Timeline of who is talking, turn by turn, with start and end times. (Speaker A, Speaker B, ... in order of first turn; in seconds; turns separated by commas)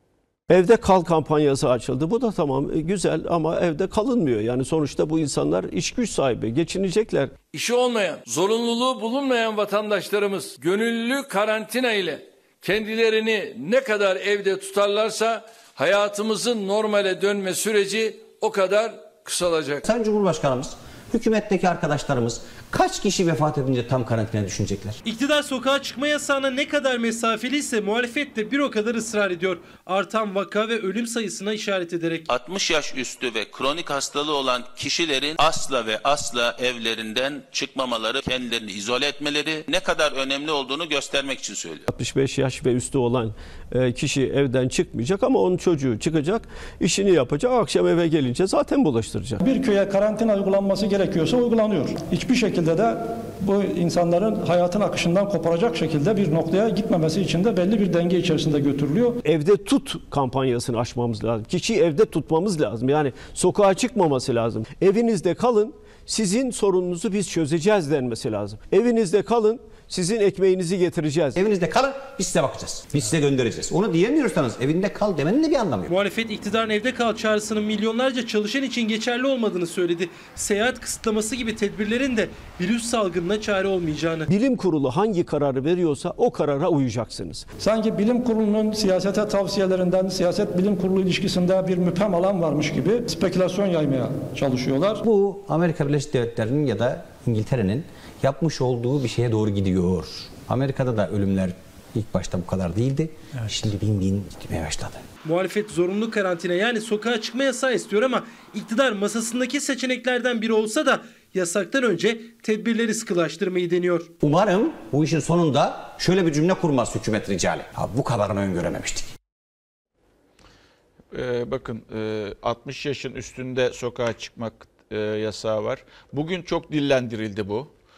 Speaker A: 0.5-7.3, Speaker B: 7.5-19.8, Speaker C: 19.8-25.0, Speaker D: 25.0-32.3, Speaker E: 32.3-41.9, Speaker A: 41.9-49.4, Speaker F: 49.4-59.1, Speaker A: 59.2-71.4, Speaker C: 71.3-75.9, Speaker D: 75.9-84.3, Speaker A: 84.3-87.5, Speaker F: 87.6-95.0, Speaker C: 95.0-105.0, Speaker D: 105.2-114.1, Speaker C: 114.2-119.1, Speaker G: 121.1-127.7